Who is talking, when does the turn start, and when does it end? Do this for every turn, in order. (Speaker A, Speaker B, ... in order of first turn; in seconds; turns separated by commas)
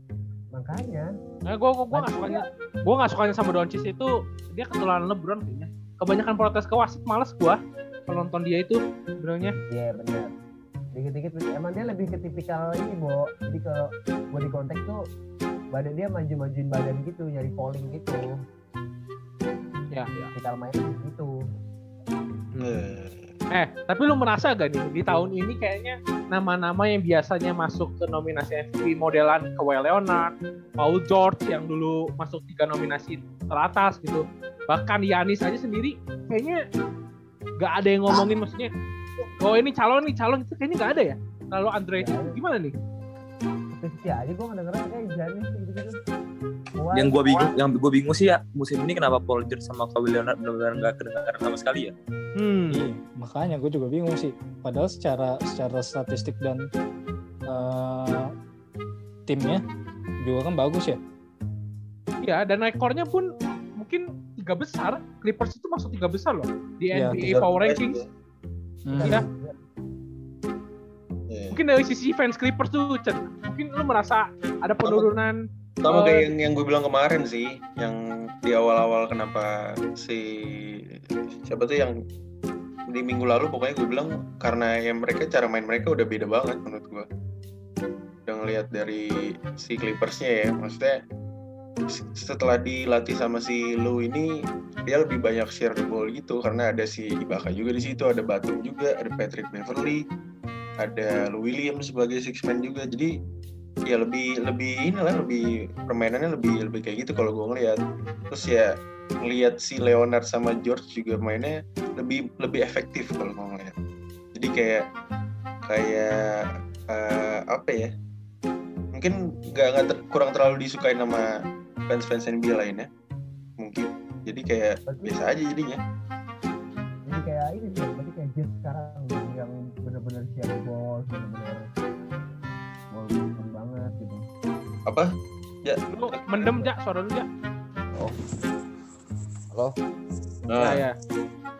Speaker A: 0.5-1.1, Speaker B: 1.4-9.5, Speaker A: 1.9-2.5, Speaker A: 9.7-10.3, Speaker A: 10.9-15.0, Speaker A: 15.7-18.3, Speaker B: 19.9-20.3, Speaker A: 20.3-21.3, Speaker B: 22.6-22.9, Speaker C: 22.6-23.3, Speaker B: 23.5-36.6, Speaker B: 37.6-38.7, Speaker B: 39.4-42.7, Speaker A: 42.0-42.4, Speaker A: 43.7-46.0, Speaker A: 46.8-47.5, Speaker D: 46.9-51.9, Speaker B: 52.4-52.8, Speaker E: 52.7-56.7, Speaker E: 57.5-58.3, Speaker E: 59.3-59.6, Speaker E: 60.2-61.0, Speaker B: 62.2-68.0, Speaker E: 66.9-67.2, Speaker C: 67.2-68.1, Speaker E: 68.8-69.2, Speaker A: 68.9-69.5, Speaker B: 69.0-69.2, Speaker C: 71.3-71.6, Speaker B: 71.5-75.4, Speaker C: 74.8-75.1, Speaker C: 75.8-81.9, Speaker B: 75.9-76.2, Speaker C: 82.9-87.0, Speaker C: 88.2-91.0, Speaker C: 91.9-94.3, Speaker C: 94.8-100.0, Speaker C: 100.8-103.1, Speaker C: 103.9-107.8, Speaker C: 108.3-113.7, Speaker C: 114.3-114.8, Speaker C: 115.7-117.9, Speaker C: 118.9-121.3, Speaker C: 121.9-122.9, Speaker C: 123.6-125.8, Speaker A: 124.9-125.3, Speaker A: 127.0-131.7, Speaker A: 132.9-134.2, Speaker C: 134.9-136.7, Speaker B: 135.9-137.3, Speaker C: 140.5-140.9, Speaker B: 140.6-140.9